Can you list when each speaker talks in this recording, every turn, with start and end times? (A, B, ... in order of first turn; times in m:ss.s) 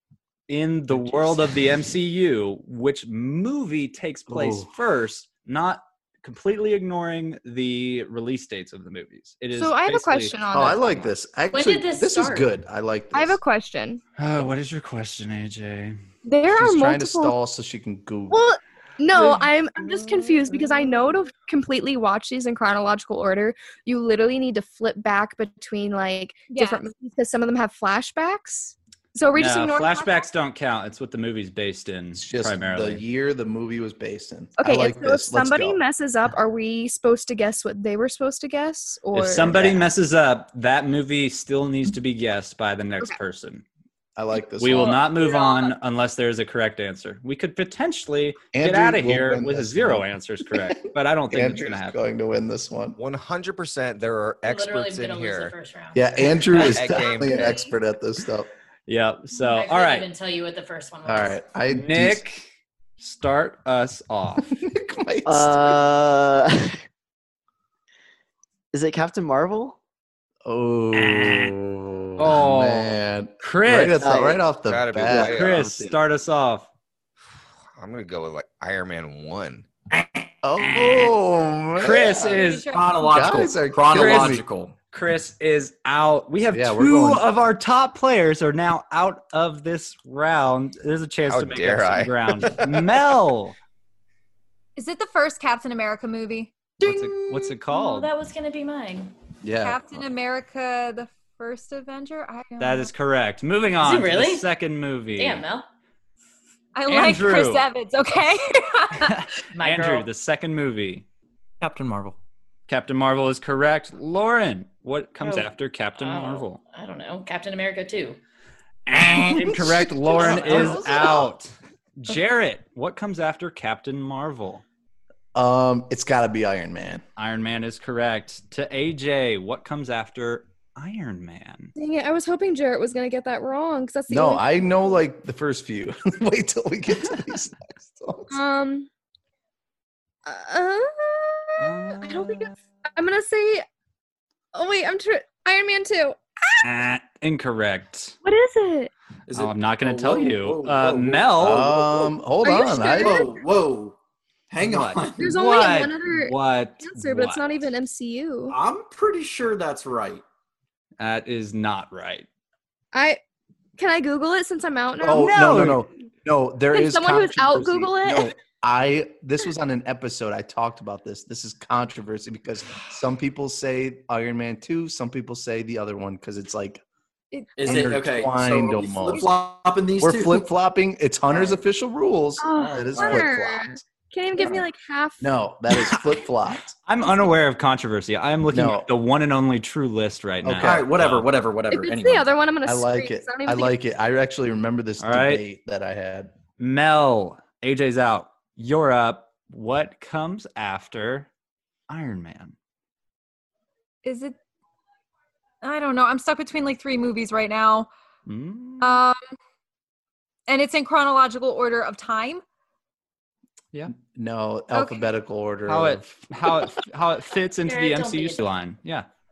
0:00.5-0:10.4 A
0:04.3-0:04.7 B
0:09.6-0:11.1 C
0:10.5-0:13.4 B
0:11.5-0:12.5 D
0:13.1-0:14.0 C
0:14.2-0:16.0 A
0:16.2-0:17.4 C
0:16.5-0:18.4 B
0:18.3-0:30.2 C
0:26.5-0:26.9 E
0:29.3-0:33.0 A
0:32.2-0:35.8 B
0:34.6-0:39.7 C
0:39.1-0:43.6 A
0:39.5-0:39.8 B
0:44.2-0:45.0 B
0:44.6-0:52.0 A
0:48.5-0:50.7 B
0:51.3-0:53.0 B
0:53.0-0:55.5 F
0:54.5-0:56.1 D
0:55.9-0:58.5 B
0:56.5-0:57.5 F
0:57.3-0:57.6 C
0:58.9-1:00.1 A
0:59.4-1:01.4 D
1:01.0-1:02.2 B
1:01.7-1:02.5 A
1:03.0-1:04.5 A
1:04.5-1:05.8 B
1:05.3-1:06.8 G
1:08.7-1:09.8 G
1:10.4-1:15.6 B
1:10.9-1:11.5 A
1:12.2-1:14.0 A
1:14.0-1:14.4 G
1:14.7-1:15.8 F
1:15.1-1:15.8 G
1:15.1-1:16.7 A
1:17.8-1:19.7 F
1:20.4-1:22.4 B
1:20.6-1:21.1 A
1:21.8-1:22.8 A
1:22.1-1:23.3 E
1:22.7-1:24.7 H
1:23.0-1:24.4 B
1:23.9-1:33.6 A
1:26.5-1:27.2 B
1:31.3-1:32.9 F
1:34.8-1:36.7 E
1:36.8-1:38.1 A
1:36.8-1:39.1 D
1:39.4-1:40.0 B
1:39.6-1:42.9 E
1:42.6-1:45.4 A
1:43.8-1:44.5 D
1:45.2-1:45.7 D
1:46.8-1:49.2 E
1:46.9-1:47.7 A
1:49.0-1:51.0 A
1:49.5-1:50.1 D
1:51.6-1:52.2 H
1:52.7-1:56.6 A
1:55.2-1:58.2 D
1:58.9-2:04.6 A
1:59.3-2:01.2 B
2:05.4-2:07.0 B
2:07.2-2:11.7 A
2:11.8-2:14.8 C
2:14.1-2:18.4 B
2:18.3-2:18.9 C
2:20.3-2:23.7 C
2:21.6-2:22.6 A
2:24.5-2:26.7 C
2:26.6-2:28.2 A
2:28.2-2:28.9 C
2:29.3-2:32.2 H
2:29.4-2:31.7 A
2:31.4-2:33.3 B
2:32.4-2:33.4 C
2:32.9-2:34.0 H
2:34.5-2:35.3 H
2:34.6-2:37.6 A
2:35.2-2:38.6 C
2:38.5-2:40.2 H
2:41.0-2:42.3 A
2:42.9-2:43.2 C
2:43.8-2:45.5 C
2:45.0-2:56.8 B
2:45.1-2:45.8 A
2:46.7-2:48.3 C
2:57.6-3:00.5 H
2:57.6-2:59.3 B
3:00.0-3:03.8 B
3:01.3-3:01.6 H
3:02.4-3:05.3 C
3:02.6-3:03.2 H
3:05.2-3:06.8 B
3:06.8-3:11.3 A
3:08.5-3:08.9 B
3:10.4-3:10.9 B
3:10.6-3:12.4 H
3:11.7-3:13.8 C
3:12.6-3:16.3 B
3:15.0-3:15.4 A
3:16.6-3:21.3 A
3:21.9-3:22.5 A
3:24.0-3:24.4 E
3:25.6-3:27.9 E
3:28.3-3:29.0 A
3:28.8-3:29.2 E
3:30.5-3:32.4 E
3:34.0-3:36.3 B
3:34.7-3:35.1 E
3:35.7-3:39.1 A
3:37.6-3:38.5 D